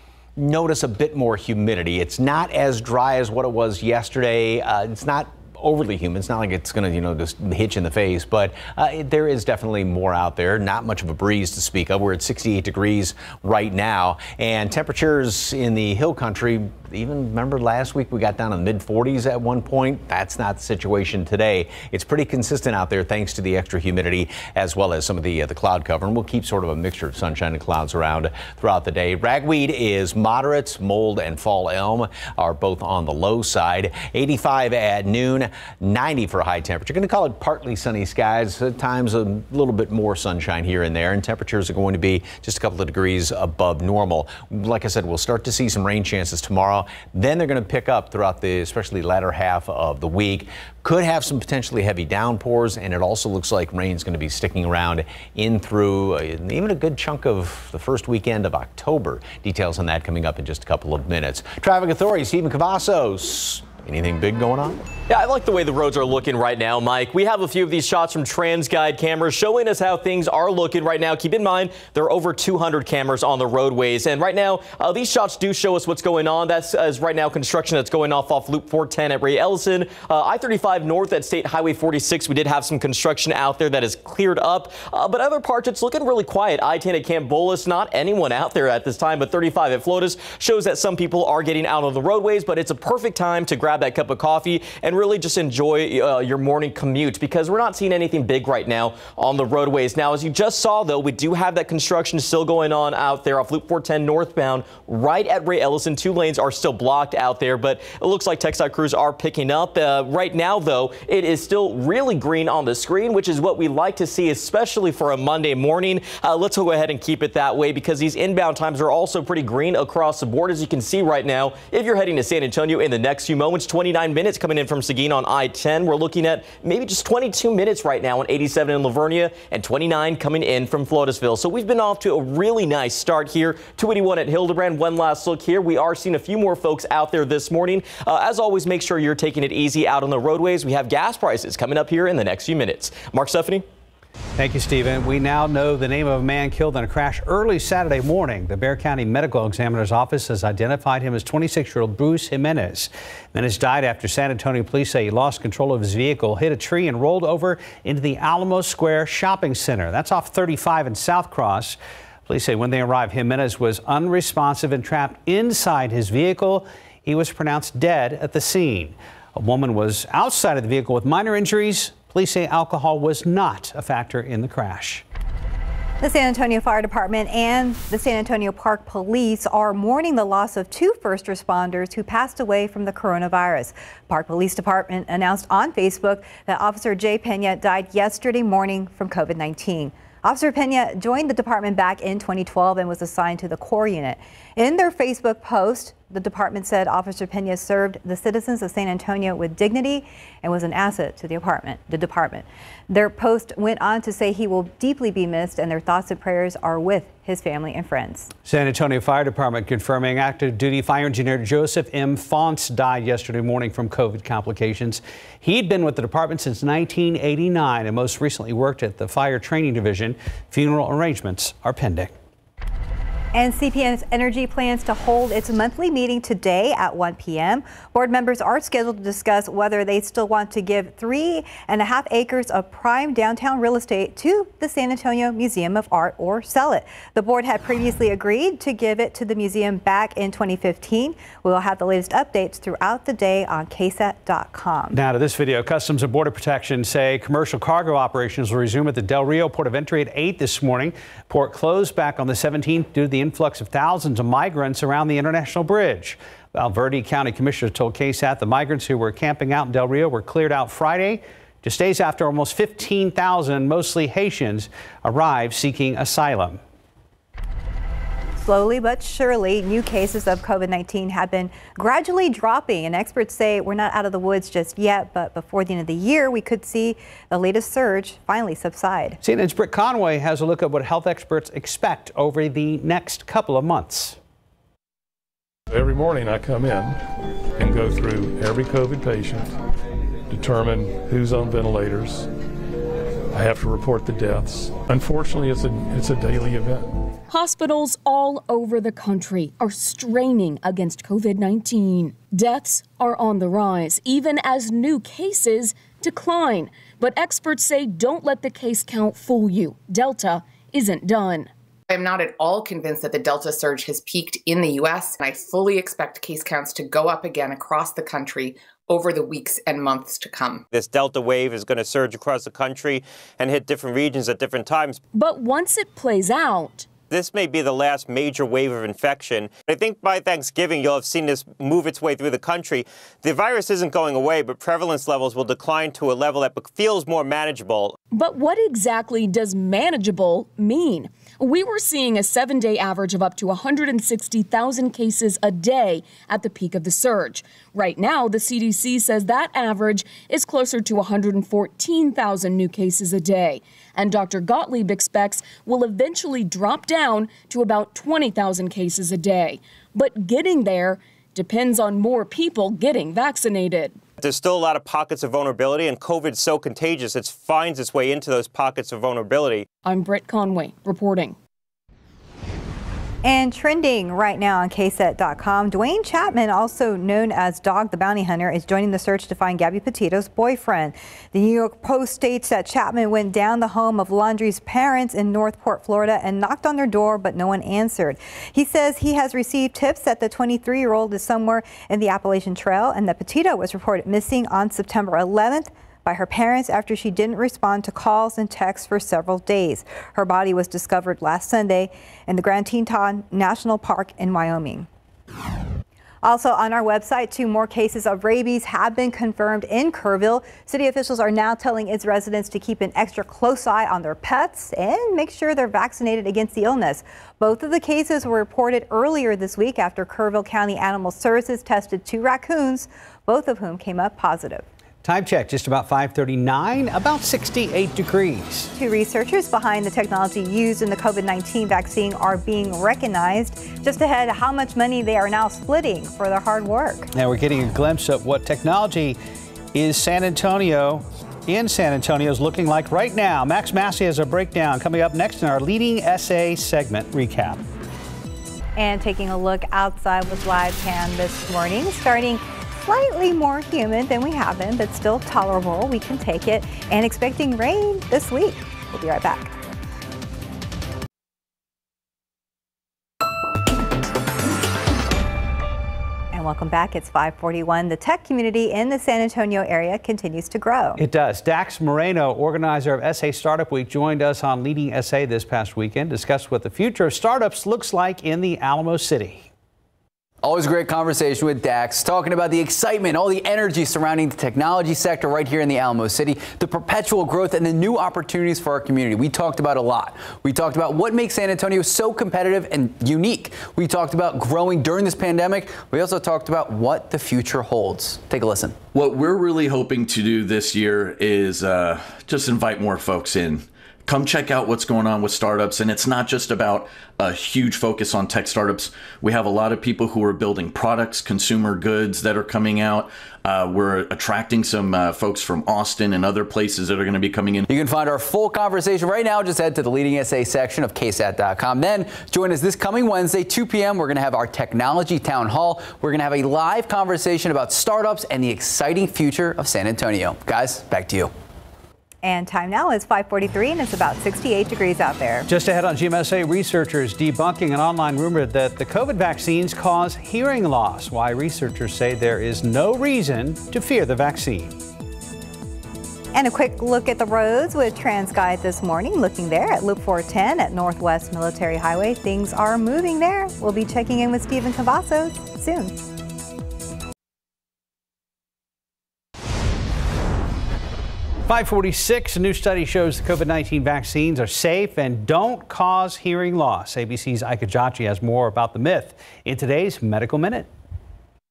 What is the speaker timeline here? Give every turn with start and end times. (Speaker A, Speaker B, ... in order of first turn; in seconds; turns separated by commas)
Speaker A: 0.3-64.8, Speaker B: 65.1-143.6, Speaker C: 144.4-175.0, Speaker D: 176.0-208.3, Speaker C: 208.4-222.1, Speaker D: 223.3-244.9, Speaker C: 244.9-266.6, Speaker D: 268.4-279.2, Speaker C: 279.2-284.2, Speaker E: 285.7-287.0, Speaker E: 287.6-289.5, Speaker E: 290.3-292.3, Speaker E: 293.3-296.9, Speaker F: 297.3-311.5, Speaker G: 311.9-320.6, Speaker H: 320.7-325.0, Speaker F: 325.1-326.9, Speaker H: 327.1-337.9, Speaker F: 338.1-364.0, Speaker H: 364.2-369.6, Speaker F: 369.8-371.4, Speaker D: 373.2-404.9, Speaker D: 406.2-424.6, Speaker C: 425.0-428.7, Speaker D: 428.7-437.1, Speaker C: 437.1-439.2, Speaker C: 439.7-447.6, Speaker D: 448.8-459.5, Speaker D: 466.3-471.0, Speaker C: 471.0-479.5, Speaker I: 480.4-498.8, Speaker J: 498.9-517.6, Speaker I: 517.7-531.3, Speaker D: 532.2-535.5, Speaker C: 535.5-544.7, Speaker D: 546.3-556.0, Speaker C: 561.5-570.7